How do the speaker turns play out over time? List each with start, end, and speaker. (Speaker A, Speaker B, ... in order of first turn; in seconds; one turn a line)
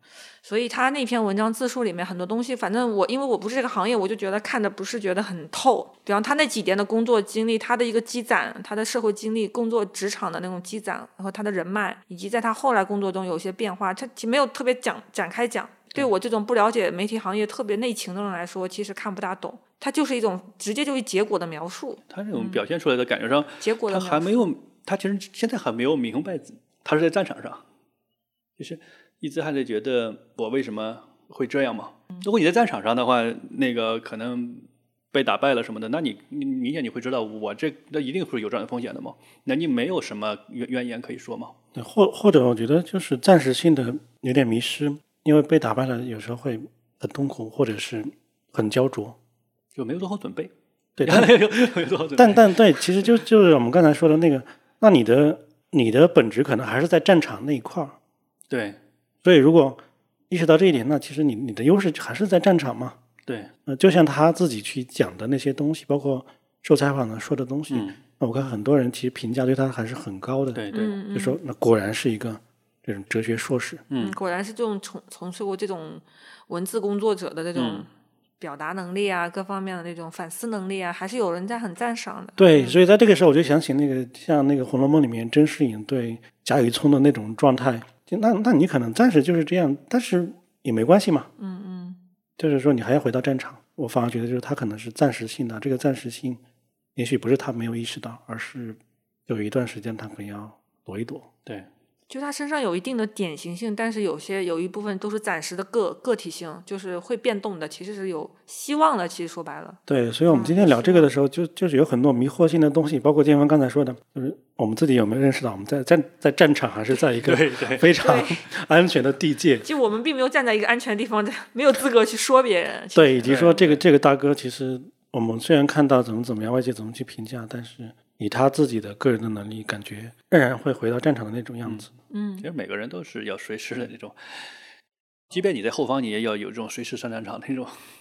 Speaker A: 0.4-22.6
Speaker B: 22.1-27.6
Speaker A: 23.6-24.5
Speaker B: 28.6-41.5
Speaker C: 41.7-49.2
Speaker B: 49.7-50.5
Speaker C: 51.0-51.3
Speaker B: 51.0-53.1
Speaker C: 52.2-58.0
Speaker B: 58.5-58.8
Speaker C: 59.2-63.0
Speaker B: 63.2-63.5
Speaker C: 63.6-73.8
Speaker B: 67.7-68.0
Speaker B: 70.5-71.0
Speaker A: 70.7-71.4
Speaker B: 73.9-74.2
Speaker A: 74.0-77.9
Speaker B: 77.5-77.8
Speaker A: 78.4-82.8
Speaker C: 82.4-91.3
Speaker A: 91.4-92.0
Speaker C: 92.4-96.4
Speaker C: 97.0-101.3
Speaker A: 102.1-111.1
Speaker C: 109.9-119.7
Speaker B: 117.2-117.9
Speaker A: 118.0-118.4
Speaker A: 119.6-123.6
Speaker C: 122.9-131.9
Speaker B: 123.2-123.8
Speaker A: 132.1-132.5
Speaker B: 132.4-134.5
Speaker B: 135.3-137.8